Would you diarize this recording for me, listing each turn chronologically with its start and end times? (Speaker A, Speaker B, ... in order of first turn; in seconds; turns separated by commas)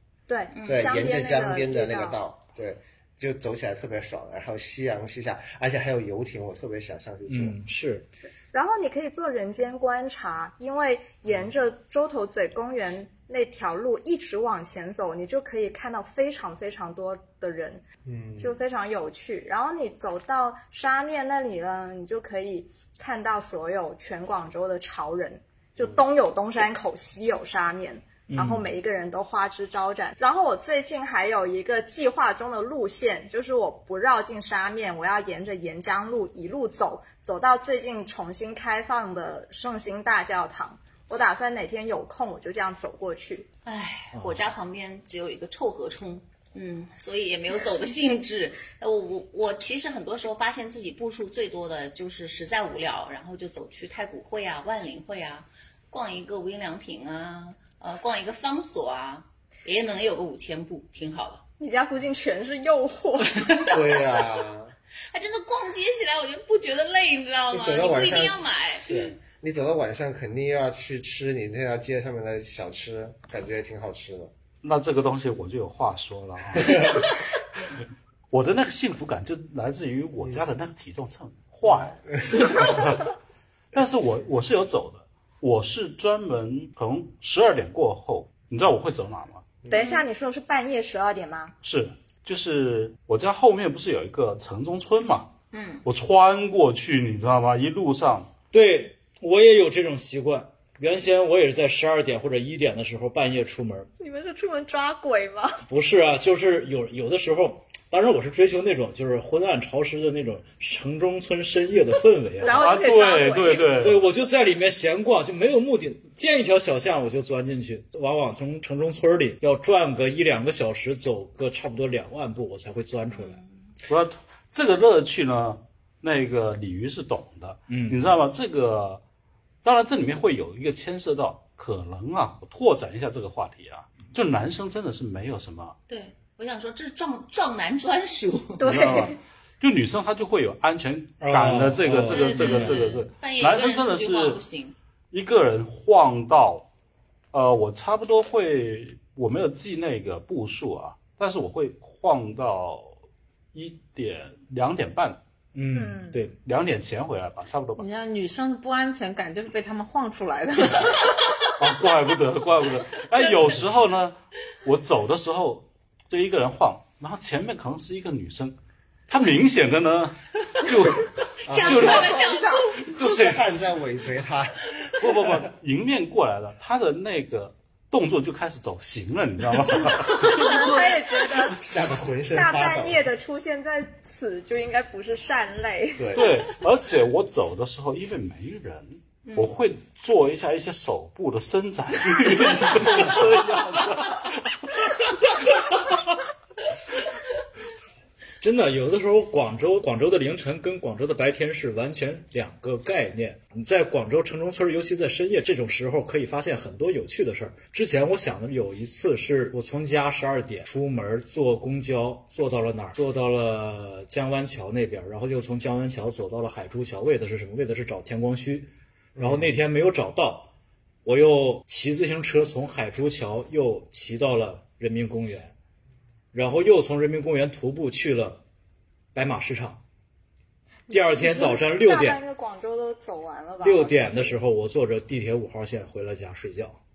Speaker A: 0.3-2.2, Speaker B: 0.5-0.9, Speaker C: 0.7-7.6, Speaker D: 7.3-8.1, Speaker A: 8.5-17.8, Speaker C: 18.0-18.6, Speaker A: 18.4-43.5, Speaker D: 28.3-28.7, Speaker B: 43.6-61.4, Speaker D: 44.1-44.4, Speaker A: 61.6-63.8, Speaker C: 63.7-64.7, Speaker B: 65.1-69.1, Speaker C: 67.5-74.3, Speaker E: 74.6-77.0, Speaker E: 78.3-83.1, Speaker E: 83.7-89.5, Speaker A: 89.7-91.5, Speaker B: 89.7-90.0, Speaker E: 91.6-95.3, Speaker B: 95.5-95.8, Speaker E: 95.8-98.3, Speaker D: 98.5-103.9, Speaker A: 104.0-105.6, Speaker D: 105.7-112.8, Speaker A: 112.4-113.7, Speaker E: 112.4-114.0, Speaker D: 113.7-123.4, Speaker B: 123.1-123.5, Speaker E: 123.9-129.0, Speaker D: 127.7-128.2, Speaker E: 129.6-135.8, Speaker B: 135.9-138.7, Speaker A: 138.6-139.2, Speaker E: 138.6-144.4, Speaker D: 141.2-142.8, Speaker B: 142.1-144.8, Speaker E: 145.1-146.7, Speaker E: 147.3-152.9, Speaker E: 153.5-155.2, Speaker D: 155.5-156.4, Speaker A: 155.7-156.2, Speaker E: 156.4-157.9, Speaker F: 157.8-161.1, Speaker E: 161.6-168.6, Speaker E: 169.1-172.2, Speaker C: 171.4-172.1, Speaker B: 171.5-172.9, Speaker F: 171.9-172.6, Speaker E: 172.8-173.5, Speaker C: 173.0-174.7, Speaker E: 175.0-180.9, Speaker A: 180.2-181.6, Speaker C: 181.5-183.1, Speaker A: 182.3-186.1, Speaker C: 186.0-186.4, Speaker E: 186.1-194.4, Speaker B: 189.2-189.5, Speaker D: 192.8-193.1, Speaker D: 198.4-220.5, Speaker C: 219.2-219.5, Speaker D: 221.0-225.5, Speaker D: 226.3-228.4, Speaker D: 229.1-229.8, Speaker D: 230.9-232.2, Speaker A: 230.9-234.4, Speaker D: 233.6-236.8